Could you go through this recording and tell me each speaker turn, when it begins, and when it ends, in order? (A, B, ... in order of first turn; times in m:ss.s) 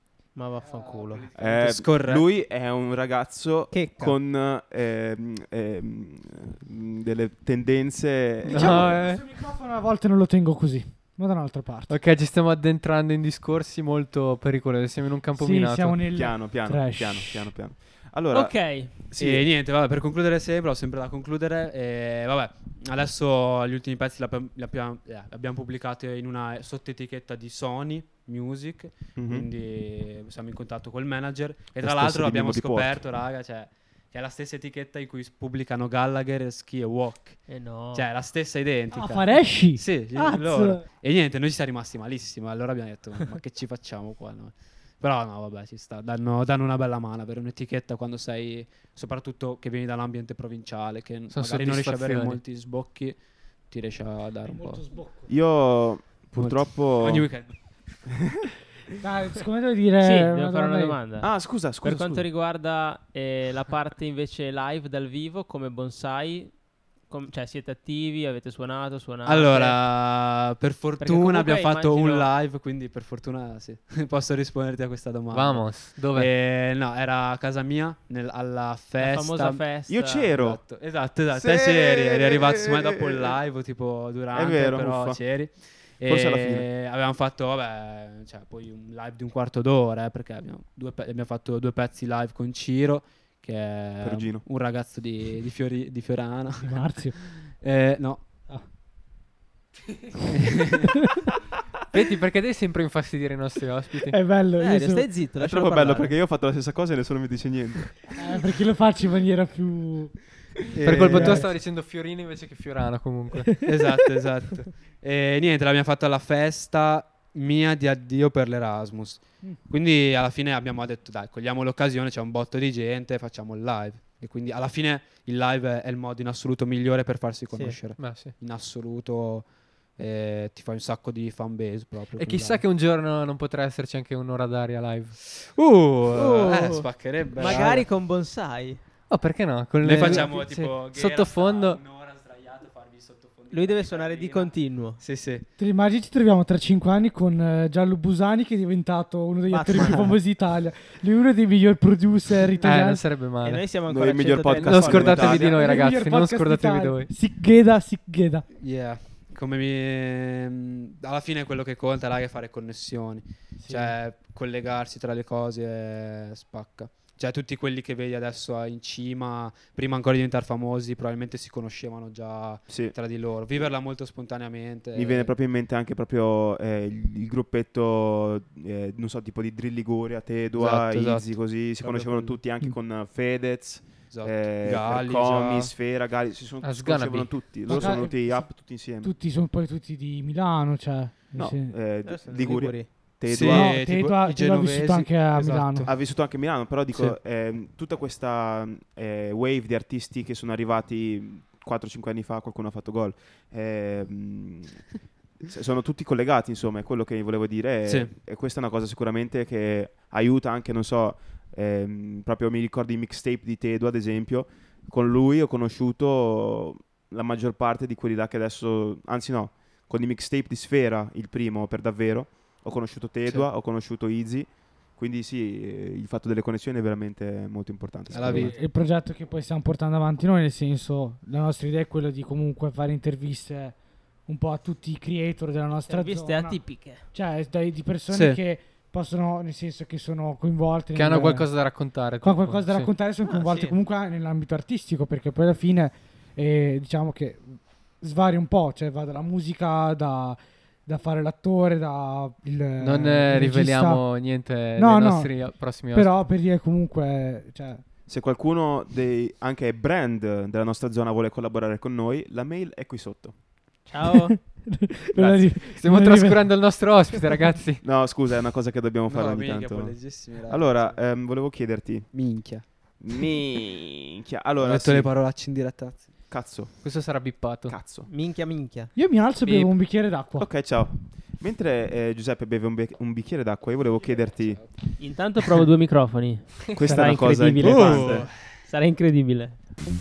0:00.4-0:01.3 A
0:00.6-0:02.3 B
0:01.4-0:09.0 C
0:03.7-0:04.2 A
0:08.5-0:12.0 D
0:08.5-0:09.2 E
0:11.9-0:16.1 E
0:15.4-0:17.5 D
0:16.1-0:19.5 C
0:18.3-0:19.0 A
0:19.2-0:54.9 B
0:29.2-0:29.5 C
0:31.8-0:33.1 C
0:37.5-0:38.1 A
0:38.9-0:40.8 D
0:51.3-0:52.4 E
0:54.5-0:55.3 D
0:55.3-0:57.4 C
0:56.3-0:57.7 B
0:59.0-1:01.0 D
1:00.0-1:09.8 A
1:01.2-1:02.3 C
1:09.3-1:19.7 B
1:11.0-1:12.3 A
1:15.3-1:16.3 E
1:19.0-1:20.3 A
1:19.9-1:20.6 C
1:20.4-1:38.5 B
1:21.3-1:23.4 C
1:24.3-1:25.2 C
1:26.0-1:26.7 C
1:34.0-1:34.4 C
1:36.6-1:37.2 D
1:40.3-1:41.0 B
1:41.9-1:44.2 E
1:44.1-1:45.1 D
1:44.6-1:46.2 A
1:45.4-1:48.0 C
1:48.2-1:50.2 D
1:50.7-1:51.5 B
1:50.8-1:51.4 C
1:50.8-1:53.6 E
1:51.1-1:51.4 D
1:53.6-2:12.6 B
2:07.5-2:07.8 A
2:08.0-2:08.4 E
2:12.2-2:15.2 E
2:15.2-2:17.9 B
2:16.1-2:18.8 A
2:19.1-2:21.8 E
2:19.8-2:25.5 B
2:20.0-2:20.3 A
2:23.5-2:25.0 A
2:25.6-2:33.1 D
2:29.5-2:30.2 A
2:32.6-2:33.7 E
2:33.4-2:35.5 A
2:33.8-2:35.6 C
2:34.6-2:37.1 E
2:35.4-2:38.5 D
2:38.6-2:55.3 B
2:43.6-2:44.0 D
2:52.7-2:52.9 C
2:54.9-3:09.1 C
3:00.6-3:02.4 B
3:04.1-3:05.8 B
3:06.6-3:07.8 E
3:07.7-3:11.8 D
3:11.4-3:13.8 C
3:12.0-3:12.9 A
3:13.3-3:16.3 B
3:13.4-3:15.9 D
3:15.9-3:24.9 C
3:25.4-3:48.6 C
3:27.9-3:28.1 B
3:48.1-3:48.6 B
3:48.1-4:17.8 D
3:55.9-3:57.1 A
3:58.1-3:58.4 B
4:01.0-4:02.9 E
4:03.2-4:03.8 A
4:12.8-4:16.2 E
4:18.1-4:23.4 C
4:23.8-4:24.4 A
4:24.4-4:27.4 D
4:25.2-4:25.6 C
4:25.7-4:27.8 E
4:27.8-4:32.2 C
4:29.1-4:30.9 B
4:32.1-4:33.2 B
4:33.0-4:35.2 C
4:34.6-4:36.2 B
4:36.3-4:38.1 C
4:36.8-4:37.9 E
4:38.0-4:39.0 A
4:38.9-4:40.5 D
4:39.4-4:39.7 E
4:40.4-4:44.8 C
4:44.0-4:44.8 B
4:45.0-4:49.6 A
4:46.7-4:48.3 C
4:46.8-4:47.5 D
4:47.6-4:48.5 B